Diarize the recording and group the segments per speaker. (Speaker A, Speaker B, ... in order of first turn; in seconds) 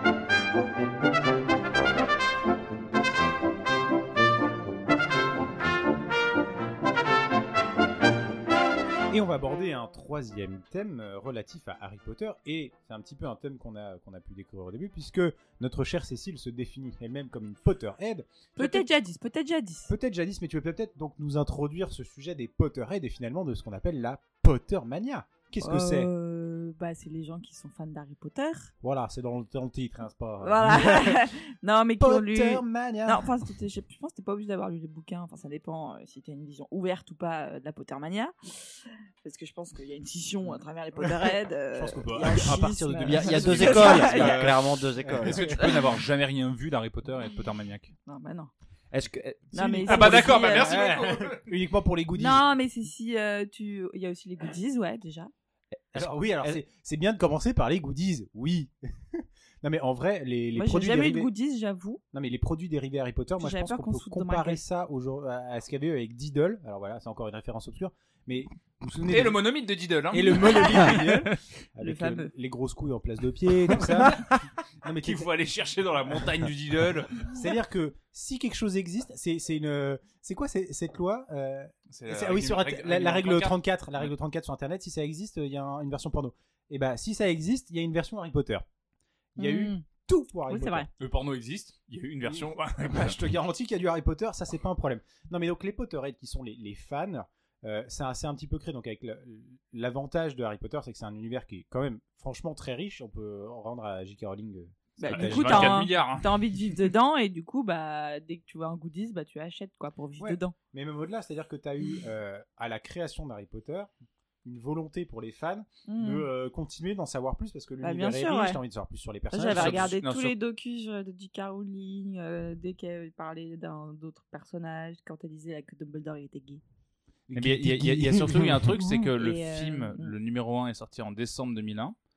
Speaker A: 9.1-18.9, 19.9-26.1, 28.8-31.3, 32.0-33.3, 41.7-45.6, 49.5-52.5, 55.9-61.3, 62.1-69.4, 70.1-75.3, 76.1-76.5, 77.3-88.6, 89.3-90.9, 92.2-105.9, 110.2-113.9, 114.4-120.3, 127.3-128.8
Speaker B: 18.6-19.9, 25.6-28.7, 30.4-44.5, 48.1-48.5, 49.5-50.8, 52.2-55.3, 60.6-62.0, 63.4-64.6, 70.5-71.0, 71.8-72.3, 89.4-89.8, 90.5-90.9, 105.0-110.5, 115.8-116.2, 117.8-118.6, 119.3-126.6, 128.8-130.1
Speaker C: 43.0-45.5, 48.9-49.4, 55.8-56.6
Speaker D: 44.1-44.5, 45.2-47.9, 49.8-51.5, 69.0-71.4, 73.8-74.4, 75.0-77.4, 81.9-83.6, 91.0-93.2, 105.1-106.3, 119.5-120.2, 127.3-131.9